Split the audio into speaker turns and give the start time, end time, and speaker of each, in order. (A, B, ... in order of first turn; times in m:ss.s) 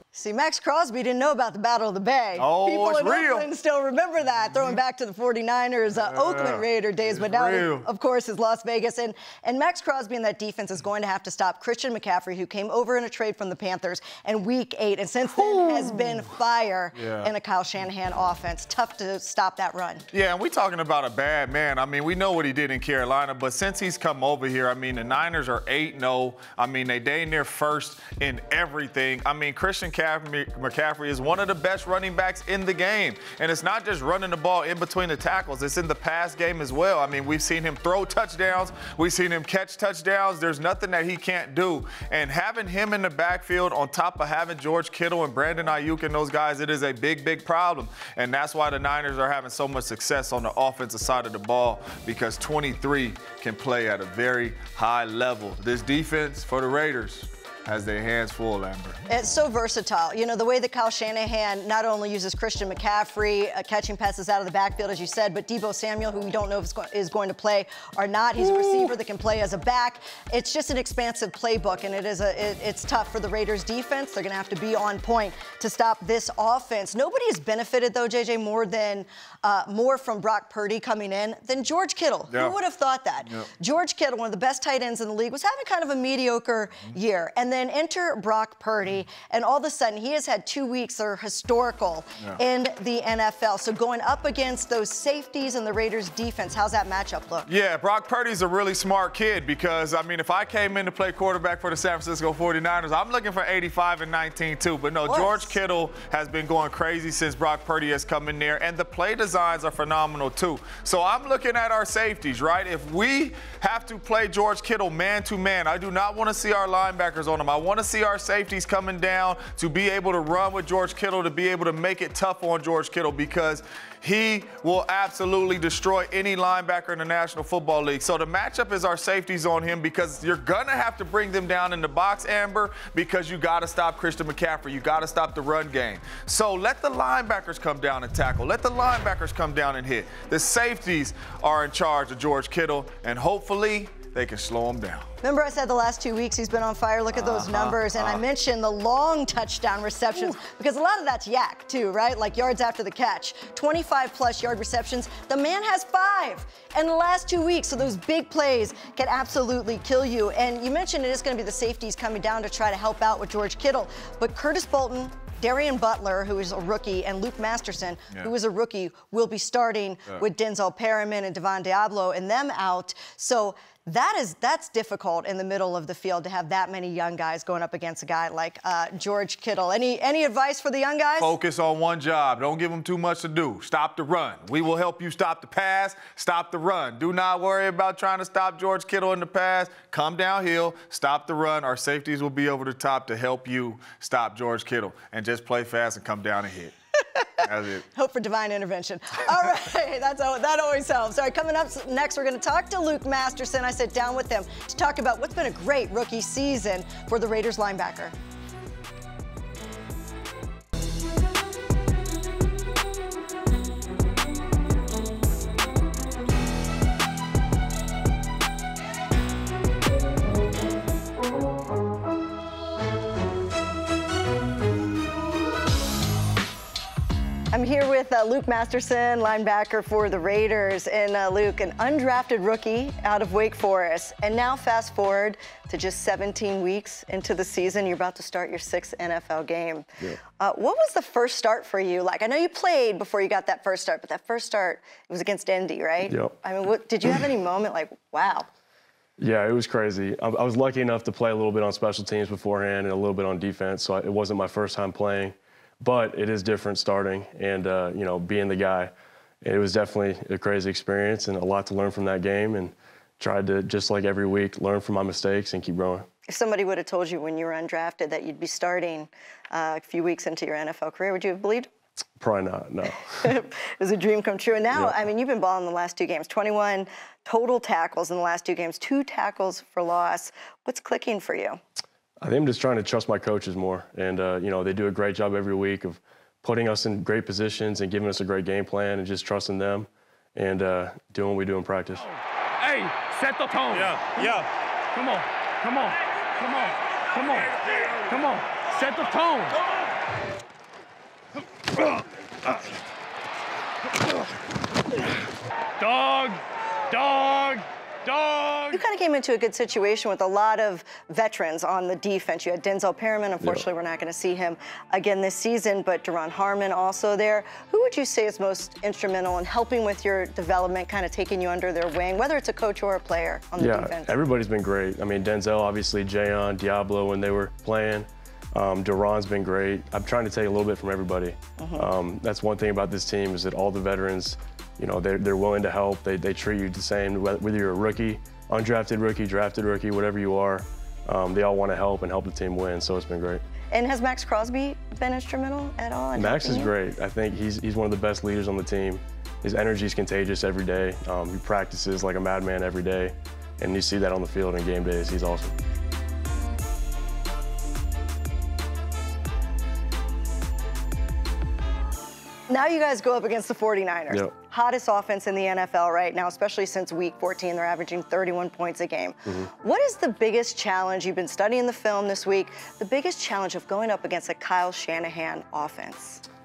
0:00.1-0:20.0 A
0:02.4-0:03.5 B
0:06.0-0:07.9 B
0:15.4-0:15.8 B
0:17.0-0:17.3 B
0:20.1-0:59.0 B
0:59.1-1:37.5 A
1:22.3-1:22.6 B
1:37.5-2:25.1 B
1:45.0-1:45.6 A
2:25.2-3:01.3 A
2:27.2-2:28.2 B
3:01.2-3:16.7 B
3:17.4-3:17.8 B
3:17.9-3:28.2 A
3:47.5-4:08.5 A
4:06.1-4:06.3 C
4:09.2-4:26.1 C
4:26.3-4:31.7 A
4:32.2-4:33.0 C
4:33.1-4:41.6 A
4:42.2-4:52.0 C
4:52.6-4:54.3 D
4:53.7-4:54.4 B
4:55.0-4:55.9 D
4:56.4-4:57.5 D
4:58.1-4:59.5 D
5:05.8-5:06.4 D
5:06.9-5:08.8 D
5:08.7-5:24.2 A
5:23.6-5:43.4 C
5:31.6-5:31.9 A
5:43.7-5:46.8 A
5:46.1-5:55.5 C
6:02.5-6:16.2 A